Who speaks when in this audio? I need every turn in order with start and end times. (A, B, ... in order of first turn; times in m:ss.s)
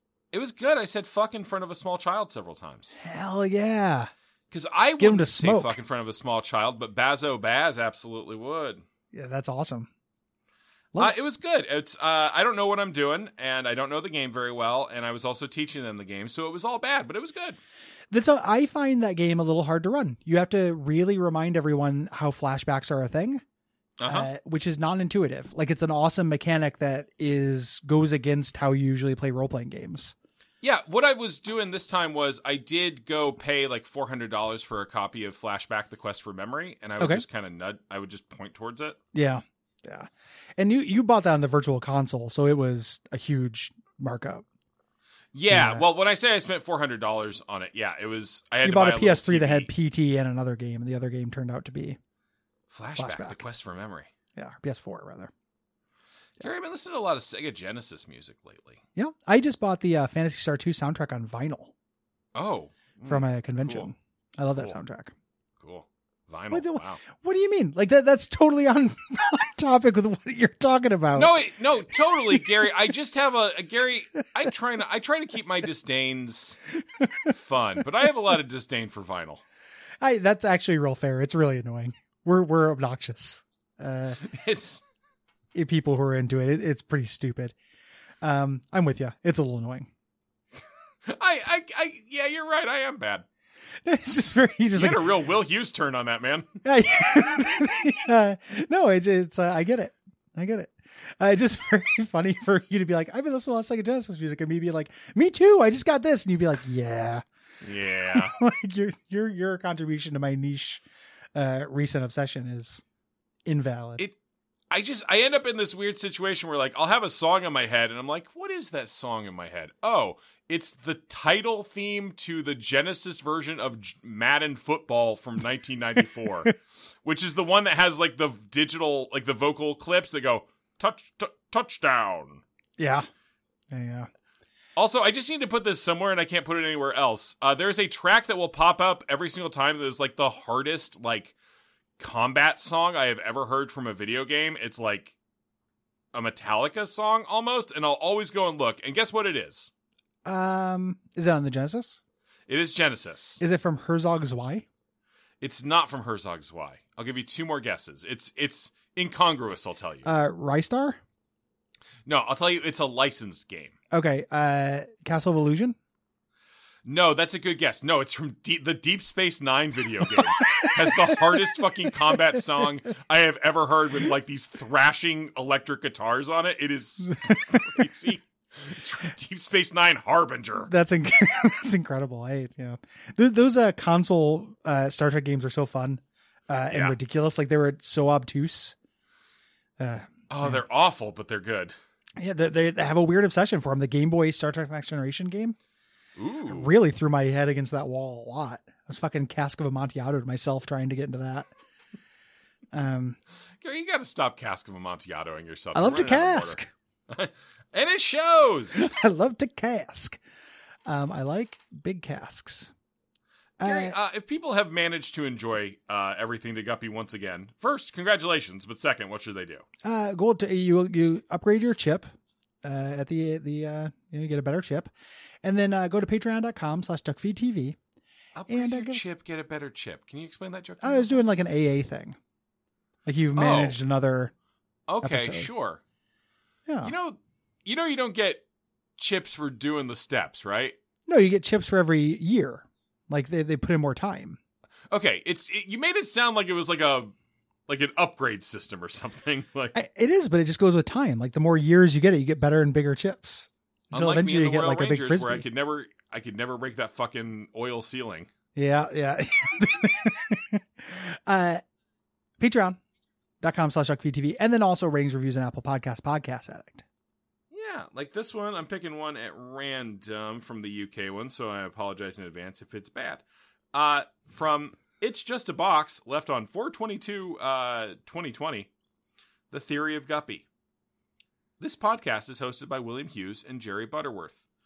0:00.3-0:03.0 A
0:03.0-0:04.1 B
0:04.5-0:08.8 A
0:05.0-0:05.8 B
0:09.1-0:09.9 B
0:11.0-0:17.6 A
0:18.1-0:23.4 B
0:24.0-0:24.3 A
0:24.0-0:30.1 B
0:30.6-0:39.0 A
0:39.1-0:44.4 B
0:45.3-0:49.7 A
0:45.5-0:45.8 B
0:48.6-0:52.0 B
0:52.7-0:54.1 A
0:53.0-0:53.4 B
0:54.4-0:55.3 B
0:56.4-0:58.8 A
0:59.0-1:01.7 B
1:02.4-1:03.9 A
1:03.1-1:05.1 B
1:05.6-1:07.0 A
1:06.5-1:11.3 B
1:11.1-1:16.6 A
1:12.3-1:12.7 B
1:17.0-1:17.3 B
1:17.3-1:19.4 A
1:20.0-1:24.2 B
1:24.2-1:24.8 A
1:25.5-1:27.6 B
1:28.2-1:29.9 B
1:31.1-1:33.3 A
1:33.8-1:35.0 B
1:34.7-1:36.6 A
1:36.6-1:47.2 B
1:47.6-1:48.4 A
1:48.1-1:50.8 B
1:51.3-1:52.8 B
1:53.5-1:54.0 B
1:54.7-2:12.4 A
2:12.8-2:13.1 B
2:13.7-2:14.1 B
2:14.8-2:21.3 A
2:22.0-2:25.2 A
2:26.1-2:29.7 A
2:30.2-2:32.0 B
2:32.5-2:33.4 A
2:33.4-2:34.7 B
2:35.4-2:40.1 A
2:40.0-2:41.0 B
2:42.1-2:43.8 A
2:43.9-2:45.8 B
2:46.9-3:00.7 A
2:50.1-2:52.0 B
2:57.2-2:57.9 B
3:00.7-3:08.8 B
3:06.7-3:07.0 A
3:09.8-3:10.6 B
3:10.3-3:11.8 A
3:12.2-3:15.6 B
3:16.2-3:16.7 A
3:16.5-3:21.5 B
3:22.7-3:23.2 B
3:23.6-3:28.9 A
3:25.8-3:26.7 B
3:28.8-3:30.2 B
3:30.9-3:32.7 B
3:33.6-3:34.0 B
3:33.6-3:39.6 A
3:39.8-3:42.1 B
3:42.6-3:44.9 B
3:45.4-3:47.8 B
3:48.4-3:51.4 A
3:48.5-3:49.0 B
3:50.8-3:52.2 B
3:53.0-3:54.3 B
3:53.4-3:53.8 A
3:54.9-3:55.8 A
3:55.0-3:55.5 B
3:56.7-3:56.9 B
3:56.8-3:58.4 A
3:59.0-4:00.8 A
4:01.1-4:04.4 B
4:04.9-4:07.1 A
4:07.7-4:09.8 A
4:09.7-4:15.4 B
4:13.9-4:18.3 A
4:18.6-4:21.6 B
4:22.4-4:22.8 B
4:23.4-4:26.8 B
4:27.5-4:33.2 A
4:33.7-4:38.7 A
4:39.5-4:40.5 A
4:41.6-4:44.4 A